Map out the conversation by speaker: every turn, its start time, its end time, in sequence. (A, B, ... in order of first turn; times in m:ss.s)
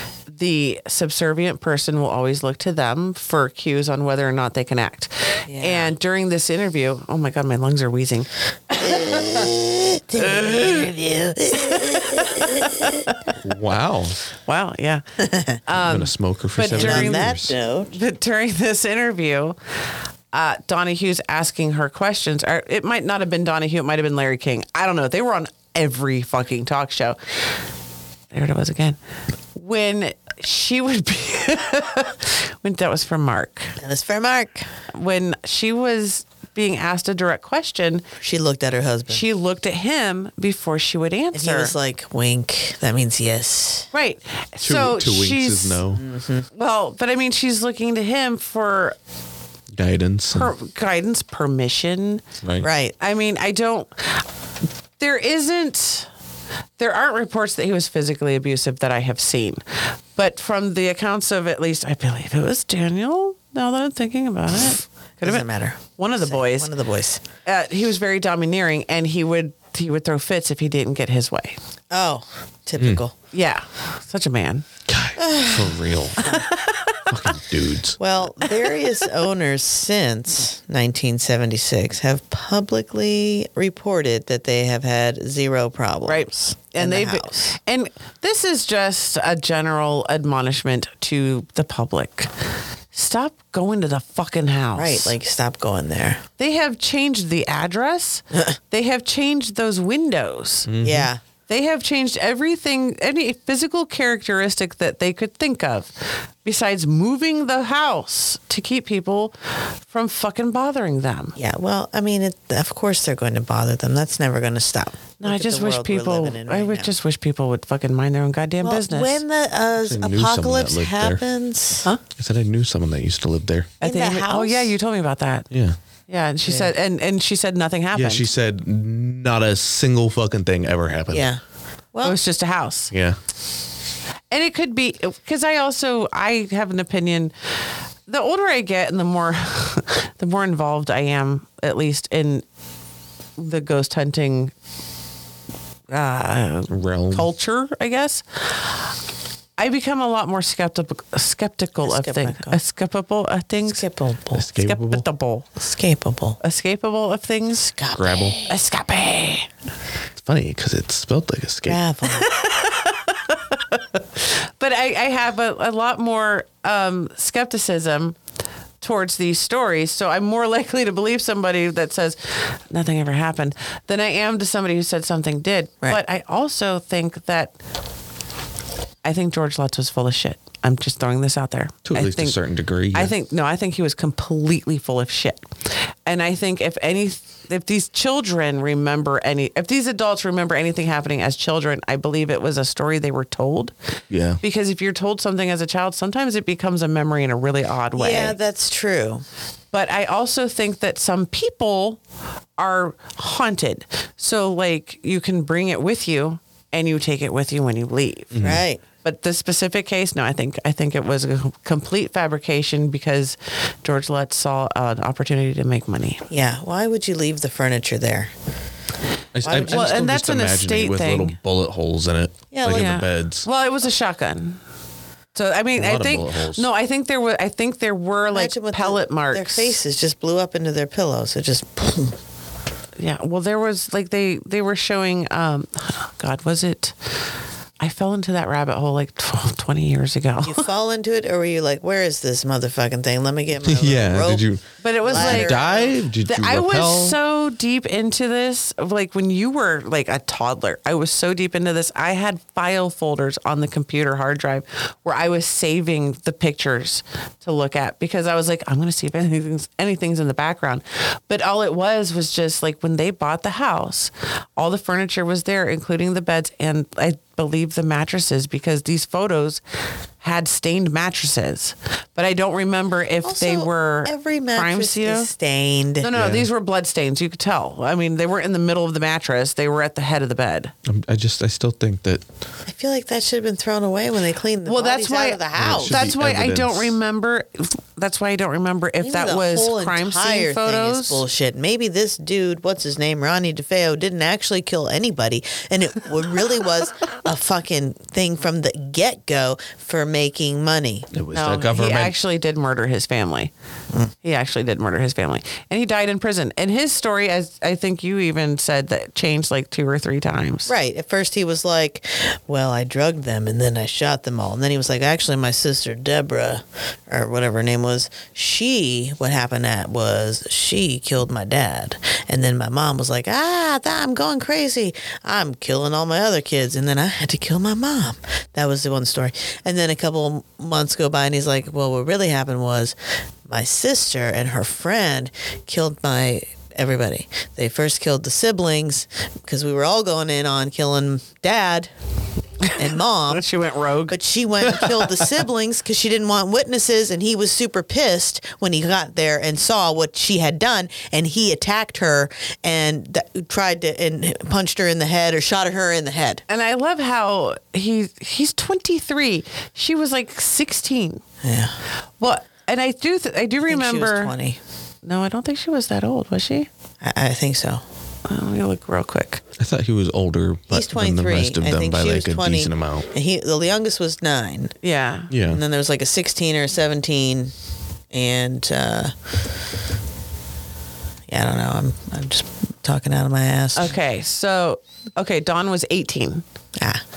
0:00.3-0:09.3 A
0:05.5-0:05.9 B
0:08.8-0:13.0 B
0:10.2-0:10.9 A
0:11.6-0:13.3 A
0:13.4-0:14.2 C
0:14.4-0:15.0 A
0:15.2-0:15.6 B
0:15.6-0:17.3 A
0:15.7-0:17.5 C
0:16.7-0:17.9 B
0:17.9-0:19.6 A
0:20.3-0:27.2 A
0:28.3-0:29.0 A
0:29.5-0:33.8 A
0:33.8-0:34.7 B
0:34.9-0:38.0 A
0:38.2-0:39.2 B
0:39.1-0:41.7 A
0:41.3-0:43.9 B
0:43.9-0:45.8 A
0:44.6-0:46.0 C
0:46.0-0:46.4 B
0:46.5-0:49.0 A
0:49.7-0:50.5 C
0:50.3-0:52.2 A
0:52.4-0:52.7 C
0:52.6-0:52.9 B
0:53.0-0:54.2 A
0:55.0-0:56.1 A
0:56.8-1:06.7 A
1:05.2-1:07.2 B
1:07.4-1:11.6 A
1:11.9-1:13.1 B
1:13.3-1:14.6 A
1:14.9-1:16.2 C
1:15.2-1:16.5 B
1:16.2-1:17.1 A
1:17.1-1:18.0 C
1:18.0-1:27.5 B
1:18.4-1:18.8 A
1:26.1-1:32.3 A
1:32.9-1:35.2 A
1:34.8-1:36.2 B
1:36.4-1:40.7 A
1:40.6-1:41.1 C
1:40.8-1:41.2 B
1:41.5-1:51.4 A
1:51.4-1:56.9 B
1:55.2-1:59.2 A
1:58.6-2:01.9 B
1:59.8-2:01.2 C
2:02.2-2:03.7 C
2:03.8-2:04.7 B
2:03.8-2:05.5 A
2:05.5-2:05.8 C
2:06.1-2:08.2 A
2:06.4-2:06.7 B
2:07.9-2:11.3 C
2:11.1-2:11.4 B
2:12.0-2:12.9 A
2:12.9-2:13.2 C
2:14.3-2:17.3 A
2:18.1-2:22.4 A
2:23.4-2:24.5 A
2:25.9-2:28.8 A
2:26.7-2:27.3 C
2:29.6-2:33.8 A
2:31.8-2:32.6 B
2:33.6-2:34.4 B
2:34.4-2:35.0 C
2:34.4-2:35.5 A
2:35.6-2:36.4 B
2:36.4-2:37.8 A
2:37.7-2:38.6 B
2:38.0-2:38.4 C
2:38.5-2:39.5 A
2:40.2-2:41.8 C
2:41.6-2:42.3 B
2:42.1-2:48.2 A
2:48.8-2:57.5 A
2:59.0-3:02.4 A
3:01.8-3:03.1 C
3:02.9-3:13.7 A
3:14.1-3:14.4 C
3:14.4-3:18.4 A
3:18.0-3:19.2 B
3:19.7-3:22.0 A
3:22.6-3:28.4 A
3:28.3-3:28.6 C
3:28.4-3:28.8 B
3:29.0-3:36.3 A
3:36.3-3:38.3 B
3:39.3-3:43.4 C
3:39.4-3:40.0 B
3:39.6-3:41.4 A
3:42.5-3:42.9 B
3:42.7-3:44.6 A
3:45.3-3:49.8 A
3:45.8-3:46.6 C
3:48.3-3:52.2 B
3:53.0-3:57.0 A
3:57.8-4:00.6 A
4:00.4-4:04.4 B
4:03.6-4:07.2 C
4:04.8-4:05.6 A
4:05.0-4:05.9 B
4:06.2-4:29.6 A
4:30.2-4:35.3 A
4:33.2-4:36.1 B
4:36.0-4:40.7 A
4:36.1-4:36.5 C
4:40.8-4:42.2 C
4:42.6-4:46.0 B
4:44.6-4:51.2 A
4:45.6-4:47.0 C
4:49.0-5:01.1 B
5:01.1-5:02.1 C
5:01.3-5:03.5 A
5:04.2-5:10.7 A
5:10.6-5:33.0 B
5:33.5-5:41.9 B
5:42.6-5:45.0 A
5:42.7-5:43.4 B
5:44.1-5:56.4 B
5:56.5-6:01.2 A
6:01.4-6:01.8 B
6:02.2-6:04.3 A
6:03.6-6:04.6 B
6:05.0-6:06.7 A
6:07.0-6:07.8 B
6:08.2-6:09.4 A
6:09.6-6:13.1 C
6:10.7-6:14.7 B
6:14.8-6:15.3 A
6:15.3-6:15.6 C
6:15.4-6:17.5 B
6:18.1-6:19.1 B
6:21.3-6:23.9 B
6:23.7-6:26.4 A